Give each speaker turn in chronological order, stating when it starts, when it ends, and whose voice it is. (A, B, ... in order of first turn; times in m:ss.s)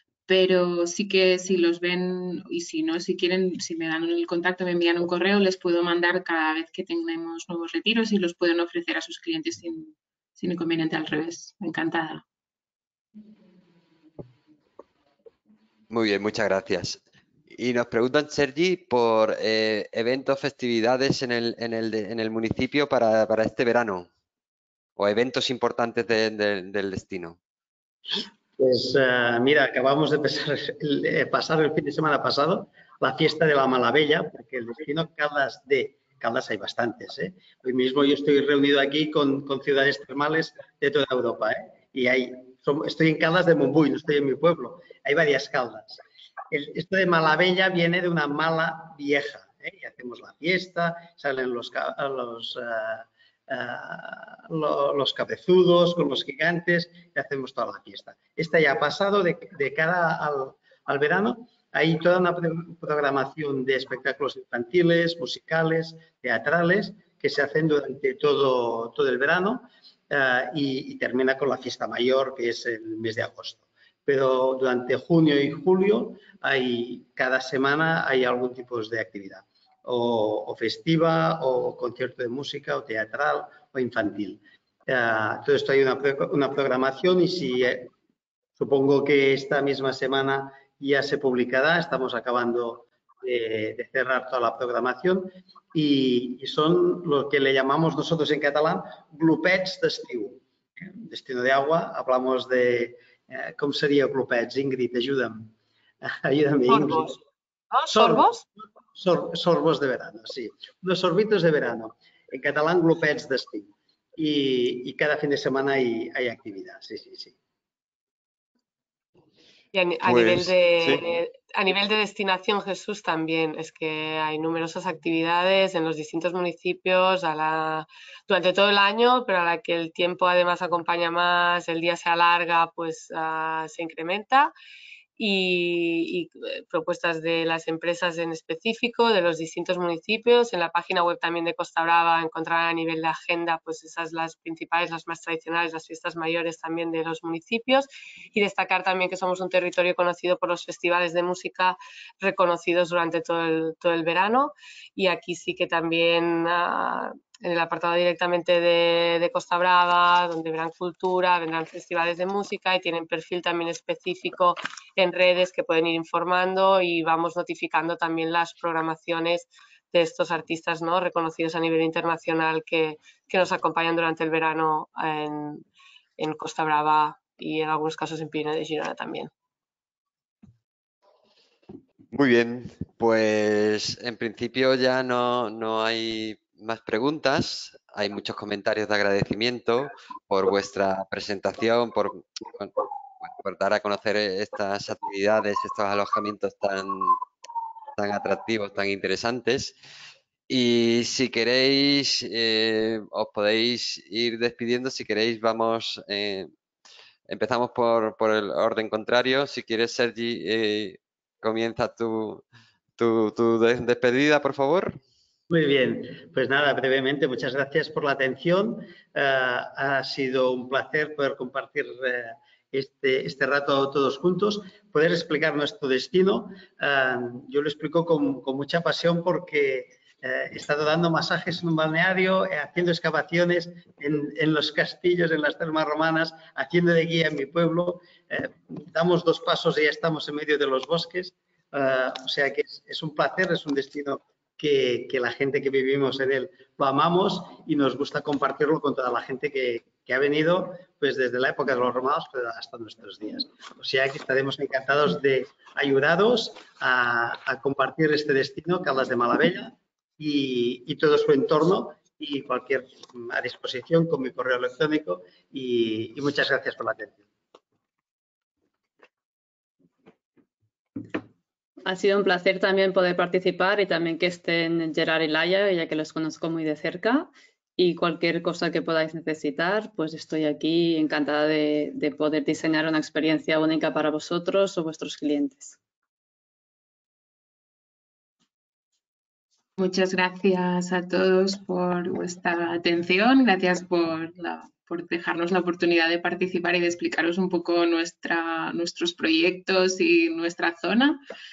0:00.3-0:12.2 A
0:15.9-0:24.1 B
0:25.0-0:27.4 B
0:28.1-0:46.0 C
0:46.5-1:27.9 C
1:28.6-1:40.4 C
1:40.9-1:47.2 C
1:46.7-1:47.2 D
1:47.7-1:48.4 D
1:47.9-1:57.4 C
1:59.7-2:14.5 D
2:00.0-2:01.0 B
2:15.2-2:55.6 D
2:56.2-2:59.3 D
3:02.1-3:17.2 B
3:18.0-3:19.8 B
3:20.5-3:26.5 B
3:27.3-3:32.4 B
3:33.0-3:35.0 B
3:35.5-4:27.2 C
4:31.8-4:45.8 E
4:49.8-5:01.2 A